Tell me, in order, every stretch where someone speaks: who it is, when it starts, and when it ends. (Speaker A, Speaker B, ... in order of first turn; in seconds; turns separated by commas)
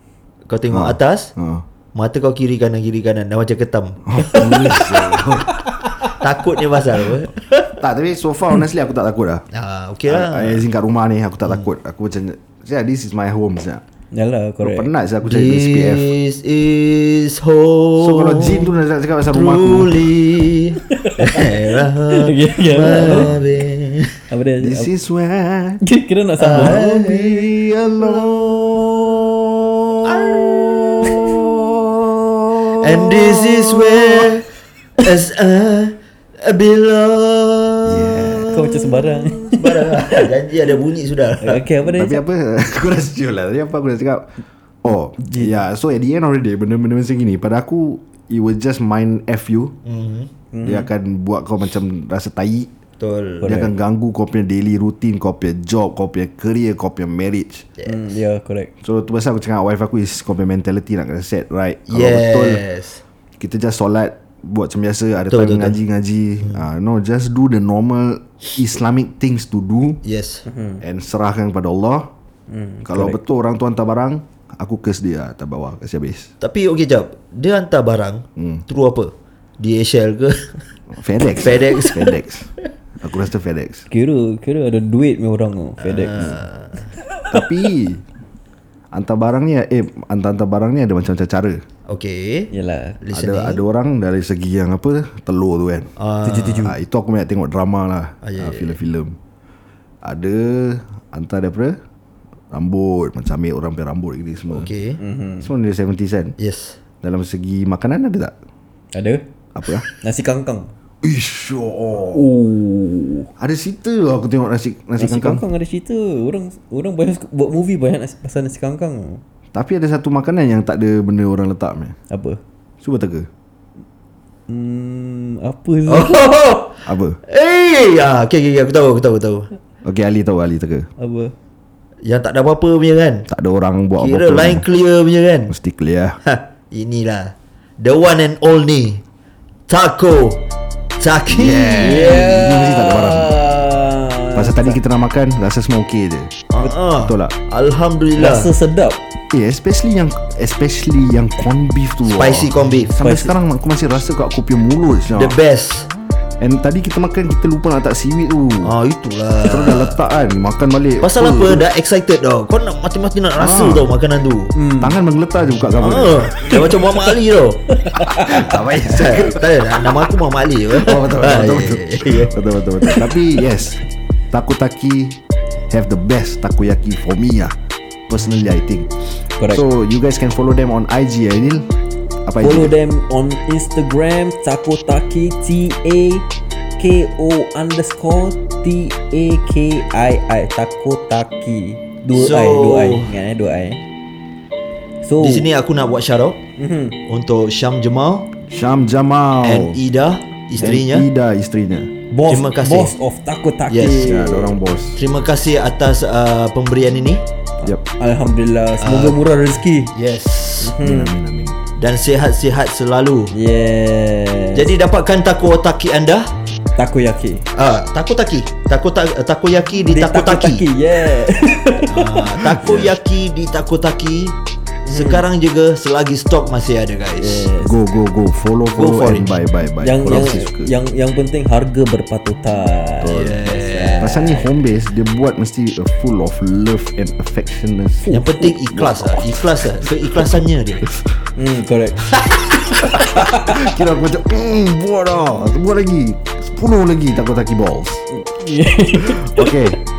Speaker A: 0.5-1.3, Speaker B: 0.7-1.6, Speaker A: 1.9-5.2, Speaker B: 4.1-5.6, Speaker C: 4.2-4.5, Speaker C: 5.6-6.2, Speaker A: 6.0-7.8, Speaker B: 7.8-9.4, Speaker A: 9.5-10.7, Speaker B: 10.1-13.8, Speaker C: 14.1-14.9, Speaker B: 14.6-16.1, Speaker A: 15.2-18.8, Speaker B: 18.0-20.1, Speaker A: 19.3-24.2, Speaker C: 20.9-23.3, Speaker B: 23.0-23.4, Speaker C: 24.3-24.9, Speaker B: 24.6-25.8, Speaker C: 25.8-26.8, Speaker A: 26.4-28.7, Speaker B: 26.5-34.4, Speaker A: 30.1-31.4, Speaker A: 32.8-34.5, Speaker A: 35.0-41.6, Speaker B: 37.9-38.7, Speaker C: 38.5-40.3, Speaker C: 41.4-42.2, Speaker B: 41.8-44.3, Speaker B: 44.8-49.8, Speaker C: 45.3-45.6, Speaker A: 49.8-50.3, Speaker C: 50.5-50.9, Speaker B: 50.6-52.7, Speaker A: 53.0-53.6, Speaker C: 53.4-53.7, Speaker B: 53.4-57.6, Speaker A: 57.8-58.1, Speaker C: 57.9-58.7, Speaker B: 58.8-62.6, Speaker A: 61.9-63.0, Speaker B: 63.4-70.0, Speaker A: 65.3-65.8, Speaker A: 70.0-70.4, Speaker C: 70.5-70.8, Speaker B: 70.8-72.1, Speaker C: 72.5-73.2, Speaker B: 72.8-76.3, Speaker A: 76.4-80.6, Speaker B: 78.4-78.6, Speaker B: 80.9-82.5, Speaker A: 81.4-82.2, Speaker B: 83.0-83.9, Speaker C: 83.9-86.4, Speaker A: 85.8-86.9, Speaker B: 87.3-88.0, Speaker B: 88.9-91.6, Speaker A: 91.9-93.6, Speaker C: 92.5-93.0, Speaker B: 93.1-95.9, Speaker A: 96.0-96.7, Speaker C: 96.2-96.7, Speaker B: 96.6-99.2, Speaker A: 98.2-98.8, Speaker B: 100.0-101.8, Speaker B: 102.5-104.7, Speaker A: 104.5-105.0, Speaker C: 105.0-105.5, Speaker B: 105.4-106.3, Speaker A: 106.4-106.8, Speaker B: 107.0-108.3, Speaker C: 108.9-109.2, Speaker B: 109.5-109.8, Speaker C: 109.9-110.7, Speaker B: 111.0-112.3, Speaker C: 112.1-113.3, Speaker B: 113.4-115.4, Speaker C: 115.0-119.2, Speaker B: 119.5-122.0, Speaker C: 122.1-122.4, Speaker B: 122.8-123.3, Speaker C: 124.5-126.3, Speaker A: 125.9-129.5, Speaker B: 126.8-127.2, Speaker B: 129.8-130.9, Speaker C: 131.0-131.3, Speaker A: 132.0-133.3, Speaker B: 133.3-134.7, Speaker A: 134.0-135.5, Speaker B: 135.5-136.2, Speaker A: 136.2-139.0, Speaker A: 139.7-140.4, Speaker A: 141.0-142.4, Speaker B: 141.3-143.3, Speaker C: 141.8-144.8, Speaker B: 144.3-146.4, Speaker A: 146.5-148.5, Speaker B: 147.0-147.3, Speaker C: 148.2-149.0, Speaker B: 149.3-155.4, Speaker A: 152.1-152.9, Speaker C: 153.0-153.3, Speaker A: 155.1-155.9, Speaker B: 156.4-158.7, Speaker A: 158.6-160.0, Speaker B: 159.4-161.7, Speaker A: 161.0-164.5, Speaker B: 163.3-163.9, Speaker C: 164.5-165.0, Speaker B: 164.8-166.7, Speaker A: 165.8-167.8, Speaker C: 167.8-168.3, Speaker B: 168.0-169.8, Speaker A: 168.8-172.3, Speaker B: 170.7-173.8, Speaker C: 172.8-173.1, Speaker B: 174.3-177.5, Speaker B: 178.1-178.9, Speaker C: 179.4-179.7, Speaker B: 179.5-181.7, Speaker B: 182.2-182.7, Speaker C: 182.4-186.2, Speaker C: 186.8-193.8, Speaker A: 192.1-193.2, Speaker C: 195.0-195.5, Speaker A: 195.2-196.4, Speaker C: 196.6-197.0, Speaker A: 197.1-198.3, Speaker B: 198.5-199.8, Speaker A: 199.4-201.1, Speaker B: 200.6-201.9, Speaker C: 202.1-204.5, Speaker A: 202.3-202.9, Speaker A: 203.7-204.3, Speaker B: 204.0-205.0, Speaker A: 204.9-207.2, Speaker C: 207.6-209.9, Speaker A: 208.8-209.2, Speaker A: 209.9-210.8, Speaker C: 210.6-211.2, Speaker B: 210.8-211.6, Speaker A: 211.8-213.3, Speaker C: 213.3-214.7, Speaker A: 214.5-216.3, Speaker C: 216.8-217.4, Speaker A: 217.5-220.7, Speaker C: 219.8-222.6, Speaker A: 221.9-224.3, Speaker B: 222.6-222.9, Speaker C: 224.8-225.2, Speaker A: 224.9-227.5, Speaker C: 227.2-227.8, Speaker B: 227.6-230.7, Speaker A: 228.8-229.3, Speaker C: 229.8-234.5, Speaker B: 233.0-233.3, Speaker A: 233.0-234.3, Speaker B: 234.0-238.2, Speaker C: 238.1-238.3, Speaker A: 238.1-240.9, Speaker B: 238.7-240.4, Speaker C: 241.3-242.1, Speaker C: 242.7-243.6, Speaker B: 242.8-248.0, Speaker C: 248.1-249.8, Speaker B: 248.9-249.8